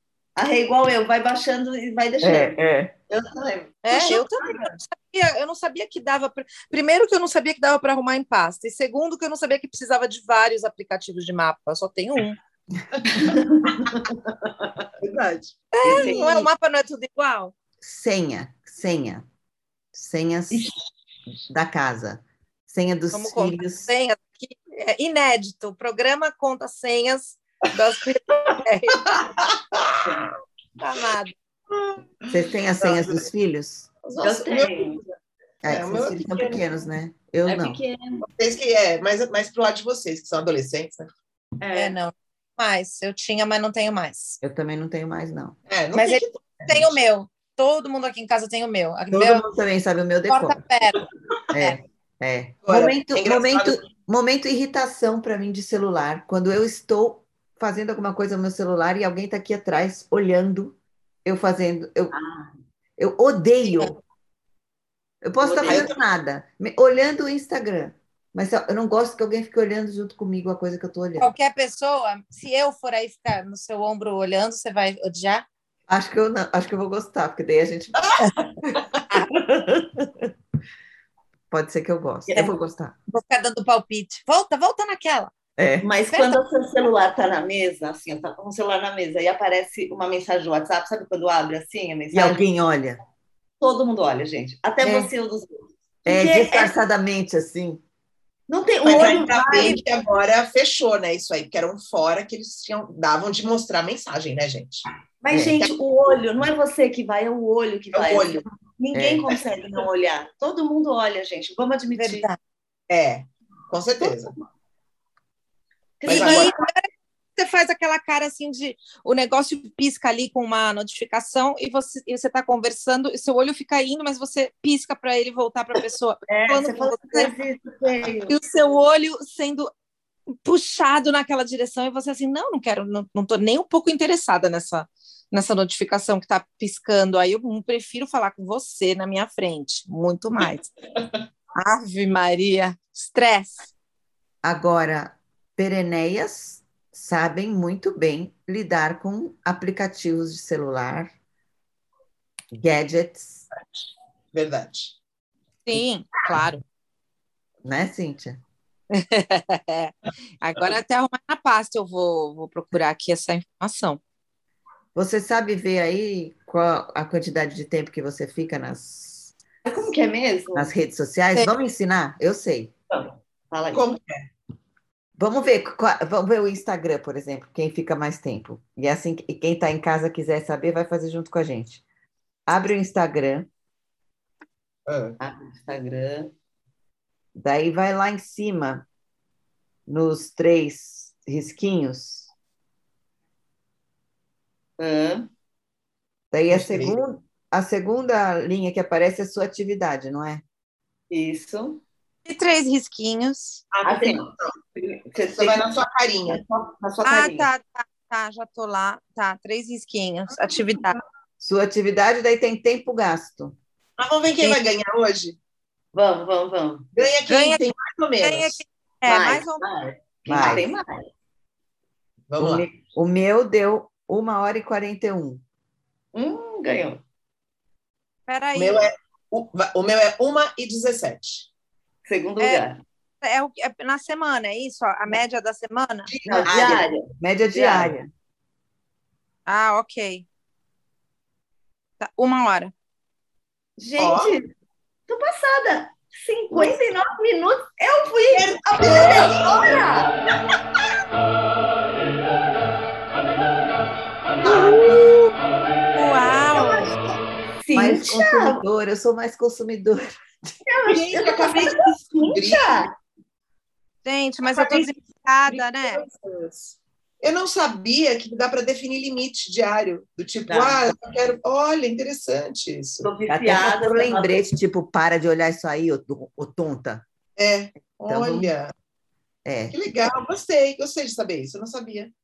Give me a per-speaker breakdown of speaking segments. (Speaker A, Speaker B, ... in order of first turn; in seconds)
Speaker A: 0.4-2.6, 3.1-4.3, 13.1-14.8, 15.8-16.5, 34.2-35.0, 37.5-38.2, 41.6-42.0, 62.1-62.5, 65.4-65.9, 85.8-92.4, 93.6-96.7, 98.5-99.8, 105.2-112.3, 116.0-116.7, 126.3-128.3, 169.7-170.7, 172.9-173.8, 185.2-186.3, 194.8-195.3, 201.1-201.8, 203.8-205.6, 206.3-207.5, 215.9-216.9, 219.1-221.1, 226.1-227.0, 232.1-232.8, 236.3-237.9, 243.8-244.5, 245.1-250.2, 256.6-257.0, 257.6-258.6, 260.6-262.9, 270.5-270.8, 273.0-274.4
Speaker B: 2.2-2.9, 17.8-19.3, 19.9-20.7, 21.5-23.9, 32.3-33.9, 35.6-37.8, 44.4-45.6, 49.1-50.6, 51.5-62.1, 63.0-64.0, 65.2-71.3, 75.9-78.8, 79.3-80.1, 81.5-83.0, 85.6-85.9, 92.1-93.0, 96.1-97.8, 105.3-105.6, 108.9-109.3, 144.4-151.1, 152.5-153.5, 157.6-158.4, 164.9-169.3, 170.5-172.7, 175.2-181.8, 182.5-183.5, 187.3-188.9, 189.9-192.3, 196.3-200.4, 211.4-213.6, 220.3-220.7, 222.4-225.4, 236.4-238.1, 257.7-260.5, 273.3-277.1, 278.1-278.5, 279.4-279.8
Speaker C: 3.8-12.4, 15.7-17.5, 23.1-29.0, 30.8-31.3, 41.7-44.4, 45.9-49.5, 50.3-51.8, 71.2-75.5, 83.1-85.3, 86.1-86.4, 94.8-95.1, 112.0-112.4, 116.1-127.3, 128.3-129.7, 130.4-140.7, 141.6-143.7, 155.7-156.6, 158.9-164.0, 202.3-203.6, 207.0-211.0, 217.3-217.6, 218.2-219.6, 228.3-228.8, 232.4-232.7, 233.2-236.1, 239.5-240.3, 242.0-242.7, 256.0-256.9, 264.1-266.0
Speaker D: 15.0-15.6, 29.0-30.1, 31.7-33.3, 34.2-36.6, 38.3-41.1, 45.7-47.0, 52.6-53.8, 65.6-66.0, 98.8-104.9, 107.9-108.4, 112.9-114.3, 116.0-116.5, 154.3-155.0, 173.7-174.3, 184.9-185.2, 196.5-197.0, 203.7-204.5, 205.2-206.4, 214.0-215.4, 216.9-218.6, 222.3-222.7, 228.6-231.5, 236.1-236.9, 244.0-244.3, 248.3-249.8, 254.4-255.1, 260.9-262.8, 264.4-264.9, 265.5-273.1, 277.4-278.7, 279.7-282.1